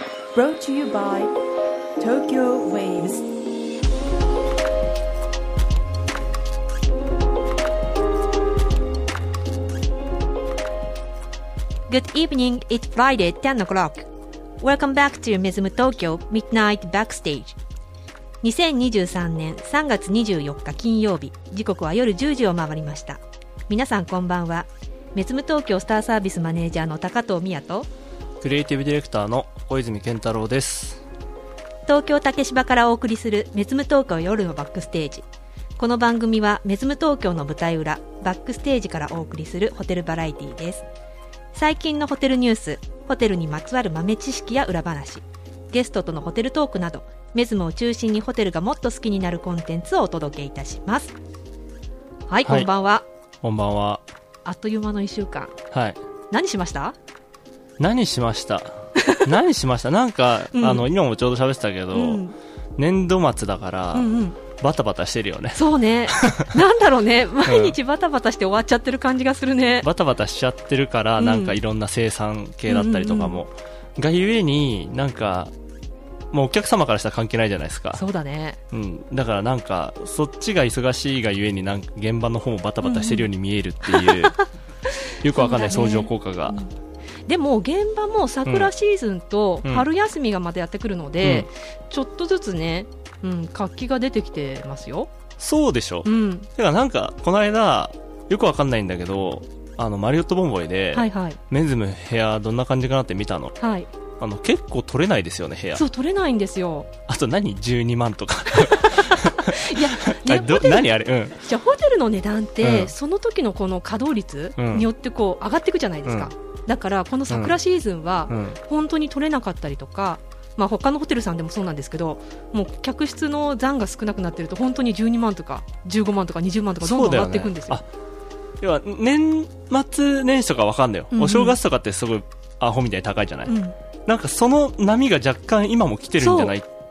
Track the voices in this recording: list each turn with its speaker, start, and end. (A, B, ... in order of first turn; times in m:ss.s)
0:00.3-0:01.3 A
0:02.0-0:03.3 A
0:11.9-0:14.1 B
0:14.6-0:17.6 B
0:18.4-0:27.9 B
0:28.4-0:31.0 C
0:31.9-0:35.2 B
0:35.8-0:40.8 B
0:41.5-0:51.1 B
0:52.3-0:53.0 B
0:52.4-0:52.7 C
0:53.4-0:54.0 C
0:54.4-0:55.6 B
0:55.7-0:56.0 C
0:56.3-0:57.0 B
0:57.8-1:02.2 C
0:59.0-0:59.2 B
1:00.5-1:00.8 B
1:01.9-1:02.4 B
1:02.8-1:06.6 C
1:03.9-1:04.4 B
1:05.5-1:09.9 B
1:07.4-1:07.8 C
1:09.8-1:15.5 C
1:11.2-1:11.6 B
1:12.7-1:13.4 B
1:16.3-1:18.0 C
1:17.9-1:18.6 B
1:18.7-1:24.4 C
1:22.8-1:23.2 B
1:23.9-1:24.4 B
1:25.2-1:26.6 C
1:25.3-1:26.7 B
1:27.3-1:35.1 B
1:28.4-1:28.7 C
1:31.2-1:31.5 C
1:35.4-1:43.6 C
1:36.0-1:36.5 B
1:40.9-1:41.4 B
1:43.6-1:43.9 B
1:44.2-1:45.8 C
1:45.7-1:46.9 B
1:47.1-1:51.4 C
1:48.5-2:07.8 B
1:52.6-1:52.9 C
1:54.6-1:54.9 C
1:56.0-1:56.3 C
1:57.3-1:57.6 C
1:58.3-1:58.6 C
2:06.8-2:07.8 C
2:08.6-2:13.5 C
2:11.1-2:11.6 B
2:13.4-2:13.7 B
2:14.0-2:16.7 C
2:16.2-2:16.5 B